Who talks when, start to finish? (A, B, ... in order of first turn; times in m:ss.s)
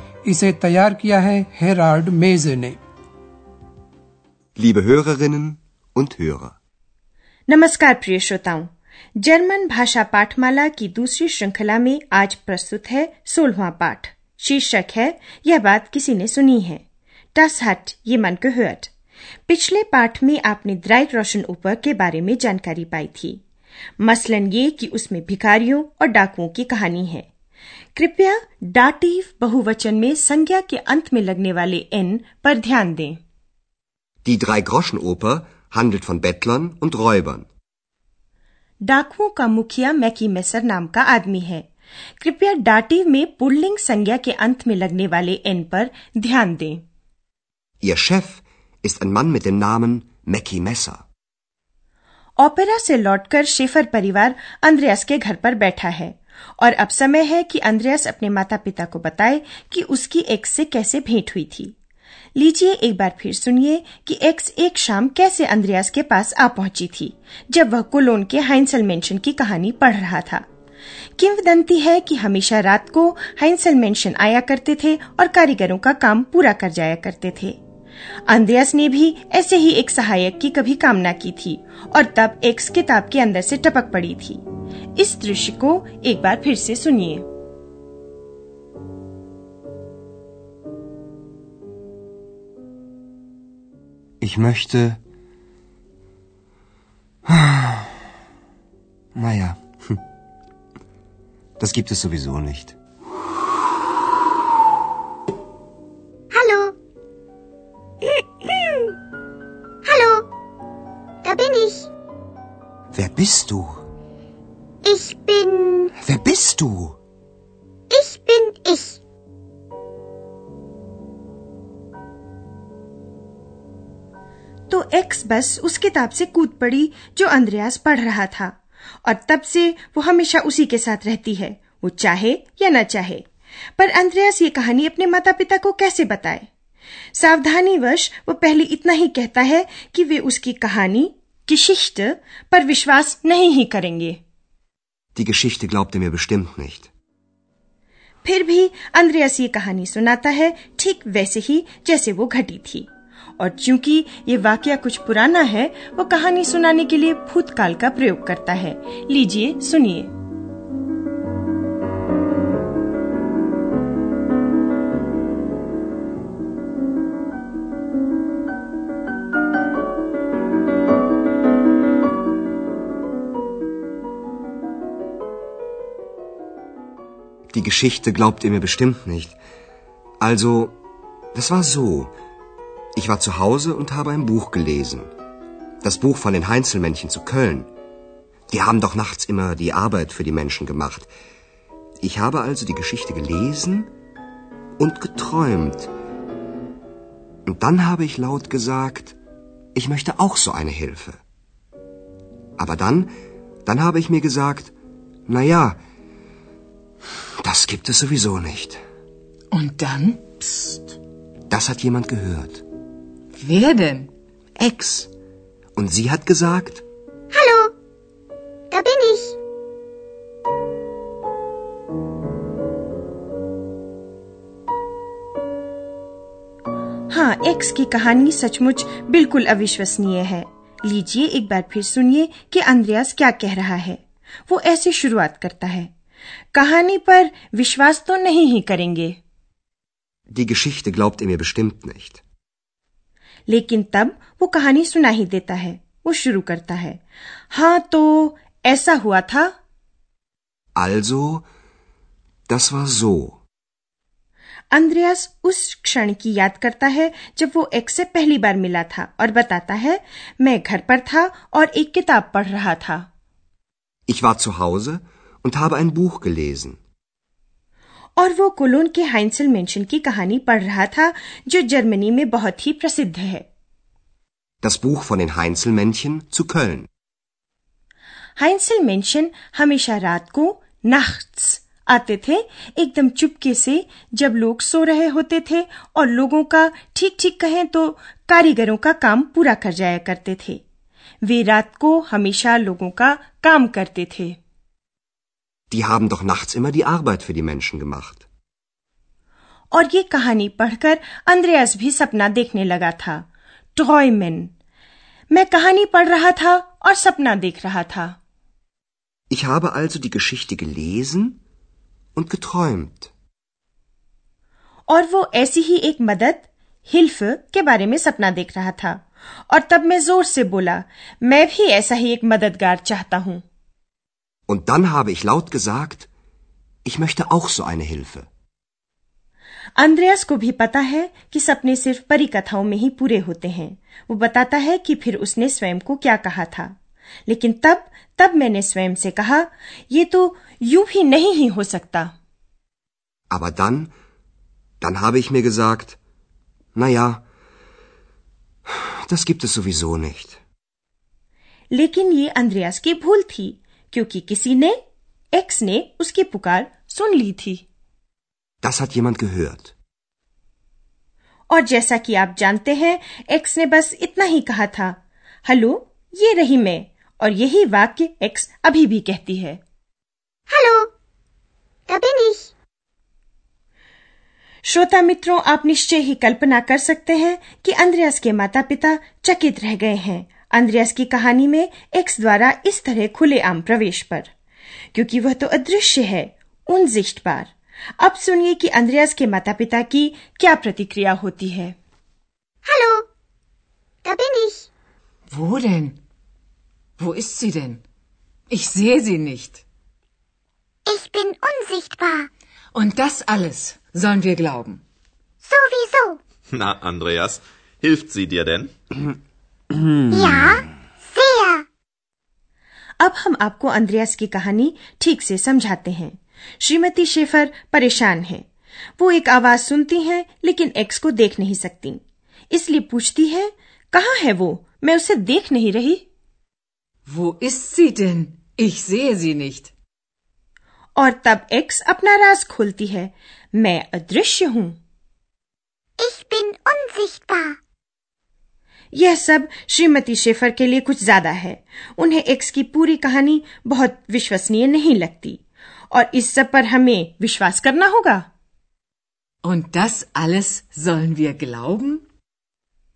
0:00.2-0:02.8 A
0:04.6-0:06.6 B
0:07.5-0:16.8 C
0:17.3-0:18.9 C
0:19.5-0:23.4 C
0:24.0-0:27.3 C
0:27.9-0:33.2 C
0:34.2-0:37.4 B
0:38.8-0:41.7 C
0:42.2-0:46.8 C
0:47.8-0:51.0 B
0:52.4-1:01.7 C
1:02.4-1:10.4 C
1:11.2-1:17.6 C
1:18.3-1:24.4 C
1:25.0-1:27.2 C
1:34.2-1:35.0 B
1:37.3-1:38.0 B
1:39.1-1:40.0 B
1:41.6-1:42.7 B
1:46.3-1:46.7 D
1:49.8-1:50.3 D
1:51.2-1:51.9 D
1:52.9-1:53.8 B
1:54.8-1:55.9 D
1:56.0-1:57.0 B
1:57.9-1:59.0 D
2:04.7-2:13.2 C
2:13.8-2:16.5 C
2:17.1-2:24.2 C
2:25.1-2:26.9 B
2:28.2-2:40.1 C
2:57.5-2:59.4 B
3:00.2-3:00.8 B
3:01.3-3:02.1 B
3:03.0-3:05.1 B
3:05.8-3:07.7 B
3:08.5-3:11.1 B
3:12.0-3:13.9 B
3:14.8-3:15.9 B
3:17.4-3:19.1 B
3:19.7-3:21.2 B
3:22.6-3:23.1 B
3:23.6-3:24.7 B
3:25.3-3:25.8 B
3:27.4-3:28.8 B
3:29.5-3:31.0 E
3:31.5-3:32.6 B
3:33.4-3:34.1 E
3:34.6-3:35.1 B
3:35.8-3:36.8 B
3:37.3-3:37.7 D
3:38.7-3:39.4 D
3:47.1-3:55.9 C
3:56.5-3:59.2 C
4:00.3-4:02.2 B
4:03.5-4:07.0 C
4:07.5-4:09.5 C
4:10.8-4:11.4 B
4:12.5-4:13.4 B
4:14.7-4:23.0 C
4:24.1-4:26.8 B
4:28.2-4:33.4 C
4:34.6-4:36.9 B
4:38.4-4:50.6 C
4:51.2-4:54.4 C
4:55.7-4:58.2 B
4:59.7-5:04.5 C
5:05.3-5:08.2 C
5:09.3-5:11.4 B
5:12.2-5:13.1 B
5:14.9-5:23.4 C
5:24.5-5:26.1 B
5:26.8-5:28.3 B
5:29.8-5:36.7 C
5:37.3-5:42.1 C
5:43.3-5:43.9 B
5:44.8-5:46.0 B
5:46.7-5:47.2 B
5:48.7-5:50.4 B
5:51.7-5:54.8 C
5:55.3-5:57.6 C
5:58.6-5:59.7 B
6:01.5-6:09.6 C
6:10.5-6:10.9 D
6:11.9-6:12.5 D
6:14.7-6:24.3 C
6:24.9-6:31.8 C
6:32.6-6:33.0 D
6:34.0-6:34.7 D
6:35.3-6:36.0 E
6:37.0-6:37.8 E
6:38.5-6:39.6 E
6:40.8-6:42.3 D
6:42.7-6:44.8 E
6:45.4-6:46.2 D
6:46.5-6:48.7 F
6:50.1-6:51.6 D
6:53.0-6:58.5 C
6:59.0-7:06.0 C
7:07.1-7:09.7 E
7:11.0-7:14.8 C
7:16.0-7:17.6 D
7:18.9-7:28.2 C
7:29.4-7:32.0 E